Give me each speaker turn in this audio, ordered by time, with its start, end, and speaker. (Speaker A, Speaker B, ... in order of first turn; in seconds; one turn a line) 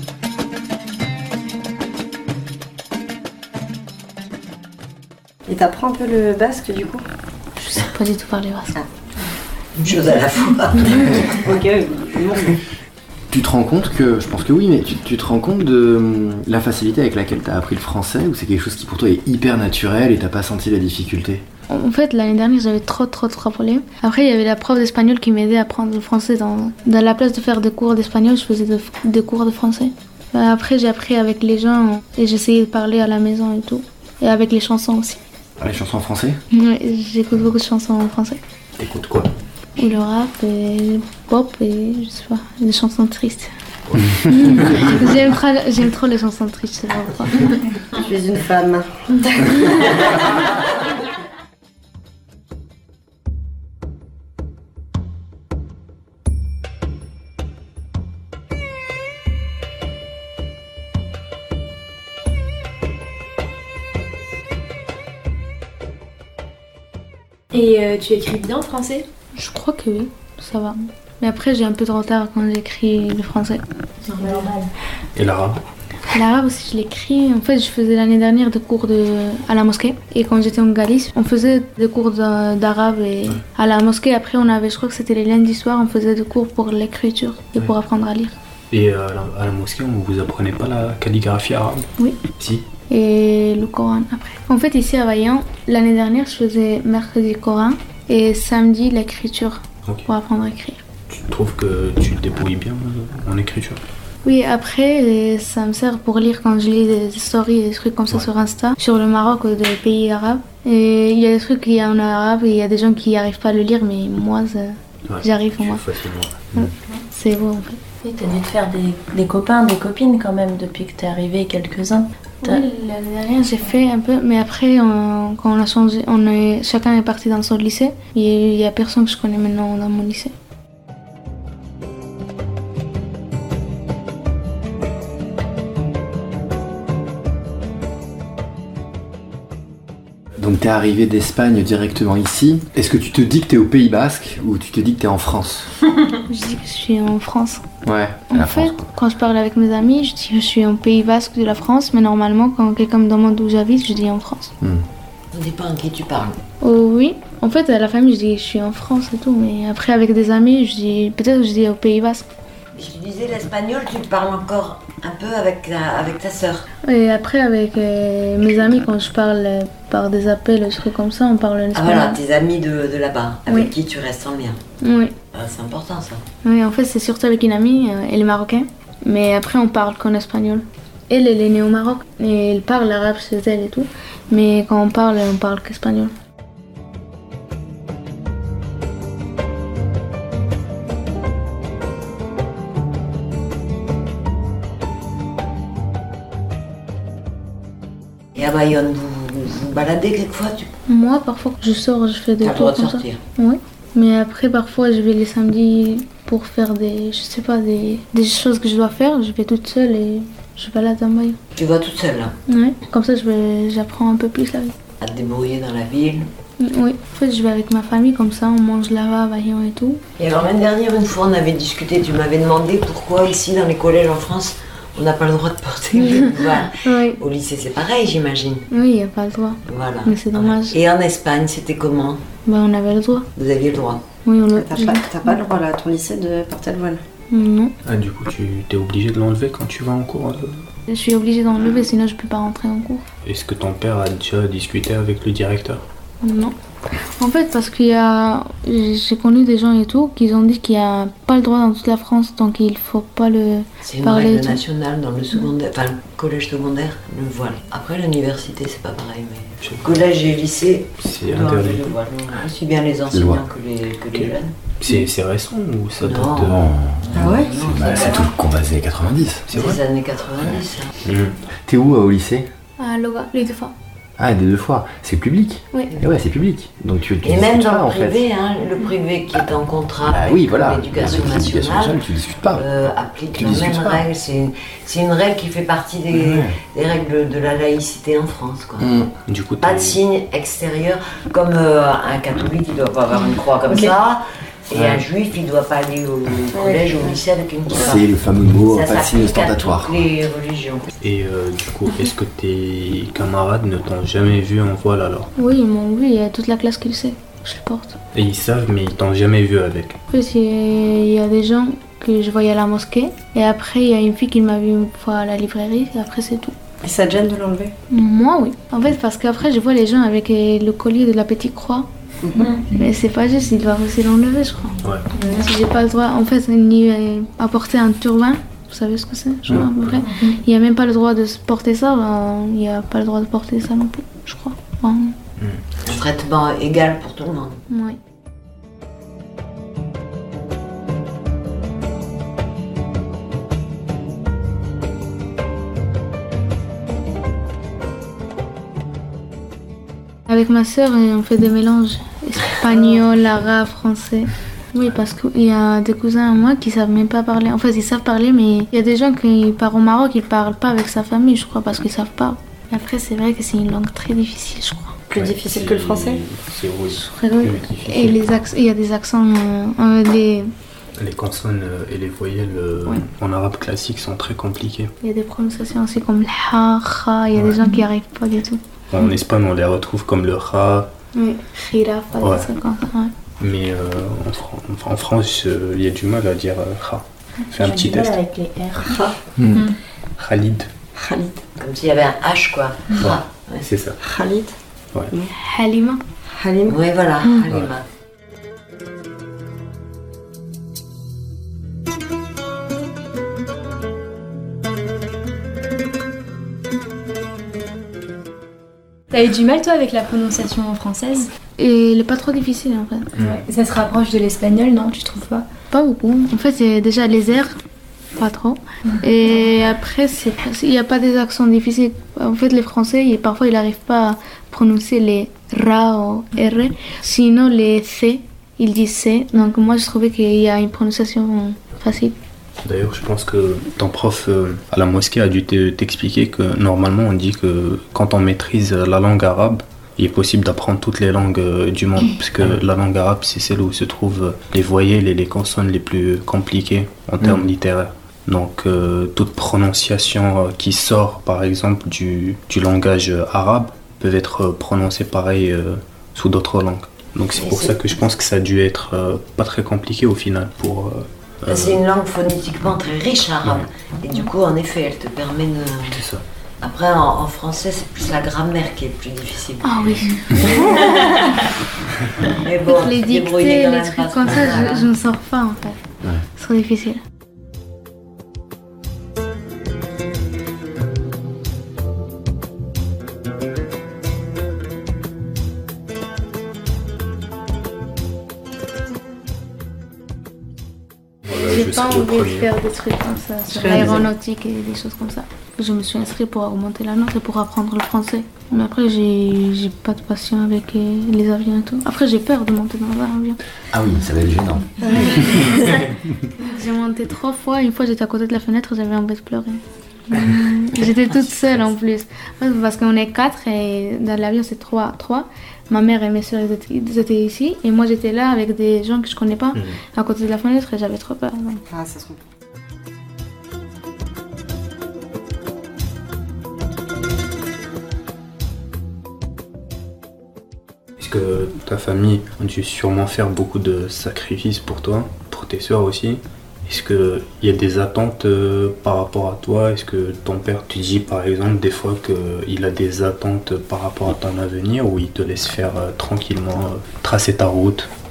Speaker A: 5.5-7.0
Speaker B: 7.6-8.8
Speaker C: 9.8-11.2
Speaker A: 11.2-12.6
Speaker D: 13.3-21.4
Speaker B: 21.7-35.2
Speaker D: 35.6-36.4
Speaker B: 36.5-38.4
Speaker E: 38.8-39.3
Speaker B: 39.8-43.5
Speaker E: 43.9-44.9
Speaker B: 44.2-47.7
Speaker A: 48.0-50.0
Speaker F: 67.5-69.0
Speaker B: 69.3-73.6
Speaker F: 74.0-74.6
Speaker A: 74.2-74.5
Speaker E: 75.2-75.6
Speaker B: 76.1-88.3
Speaker E: 88.7-92.7
Speaker B: 92.9-100.8
Speaker E: 101.1-103.8
Speaker B: 104.2-115.8
Speaker E: 115.1-116.6
Speaker B: 116.5-117.8
Speaker G: 118.0-122.1
Speaker B: 122.4-130.3
Speaker D: 140.4-145.7
Speaker B: 146.3-147.6
Speaker D: 147.8-148.9
Speaker B: 148.3-154.5
Speaker D: 154.6-154.8
Speaker C: 155.3-156.4
Speaker B: 156.6-162.3
Speaker C: 162.8-166.7
Speaker B: 166.8-172.2
Speaker C: 171.7-174.6
Speaker B: 174.8-175.1
Speaker C: 175.3-176.2
Speaker B: 176.4-186.1
Speaker C: 198.3-200.7
Speaker B: 200.9-211.4
Speaker C: 202.4-203.2
Speaker C: 211.6-212.3
Speaker B: 212.5-214.7
Speaker C: 215.0-216.3
Speaker B: 216.6-220.0
Speaker C: 220.2-228.6
Speaker B: 226.8-227.2
Speaker B: 228.7-230.8
Speaker C: 229.7-232.2
Speaker B: 232.4-233.3
Speaker C: 233.3-234.0
Speaker B: 234.2-235.1
Speaker A: 234.5-237.0
Speaker B: 237.3-237.8
Speaker E: 237.8-240.5
Speaker B: 240.9-243.0
Speaker E: 243.2-245.8
Speaker B: 246.2-246.5
Speaker B: 247.2-254.6
Speaker C: 253.8-264.5
Speaker E: 259.6-260.0
Speaker E: 261.0-261.9
Speaker D: 263.1-263.4
Speaker E: 264.1-266.6
Speaker C: 266.0-266.6
Speaker D: 266.5-269.4
Speaker C: 267.1-268.3
Speaker A: 267.2-267.5
Speaker E: 269.5-269.8
Speaker C: 269.5-270.9
Speaker E: 271.0-271.4
Speaker D: 271.6-272.4
Speaker B: 272.8-273.7
Speaker D: 274.2-278.2
Speaker C: 277.2-288.9
Speaker D: 280.1-282.7
Speaker D: 283.3-284.1
Speaker D: 286.1-286.6
Speaker D: 288.8-289.1
Speaker E: 289.3-290.0
Speaker C: 289.6-298.1
Speaker A: 293.7-293.9
Speaker A: 296.5-297.2
Speaker D: 297.7-300.1
Speaker C: 298.7-300.9
Speaker E: 301.0-305.3
Speaker B: 305.4-308.0
Speaker E: 308.1-310.0
Speaker B: 310.1-316.5
Speaker A: 316.8-317.7
Speaker B: 317.9-321.9
Speaker A: 322.2-322.5
Speaker B: 322.6-335.1
Speaker E: 329.5-330.0
Speaker E: 335.4-336.0
Speaker C: 335.8-337.6
Speaker B: 337.7-338.0
Speaker B: 350.3-365.0
Speaker A: 365.1-366.2
Speaker E: 365.1-368.2
Speaker B: 366.9-370.5
Speaker E: 371.0-374.9
Speaker B: 375.0-378.6
Speaker E: 377.4-377.6
Speaker E: 378.9-380.9
Speaker B: 381.1-383.1
Speaker E: 382.2-382.5
Speaker E: 383.4-388.2
Speaker G: 387.6-388.8
Speaker A: 388.8-389.2
Speaker D: 389.4-389.6
Speaker E: 390.2-390.7
Speaker A: 390.9-391.4
Speaker C: 391.6-393.7
Speaker E: 393.0-393.9
Speaker A: 394.0-394.5
Speaker B: 395.3-396.0
Speaker A: 396.3-396.8
Speaker C: 396.6-397.8
Speaker F: 409.1-411.3
Speaker B: 411.6-413.1
Speaker E: 413.2-413.4
Speaker F: 413.2-415.5
Speaker B: 415.7-417.5
Speaker B: 418.1-432.1
Speaker E: 432.6-461.8
Speaker C: 457.3-457.8
Speaker C: 461.4-466.1
Speaker E: 465.9-466.2
Speaker C: 466.6-471.4
Speaker B: 469.6-471.2
Speaker C: 472.3-474.9
Speaker B: 472.6-475.8
Speaker B: 476.3-477.0
Speaker E: 491.2-492.5
Speaker B: 491.4-503.4
Speaker A: 493.5-494.0
Speaker D: 503.7-505.5
Speaker B: 504.8-505.8
Speaker B: 506.4-521.6
Speaker E: 519.5-519.8
Speaker A: 521.7-522.2
Speaker E: 531.0-547.9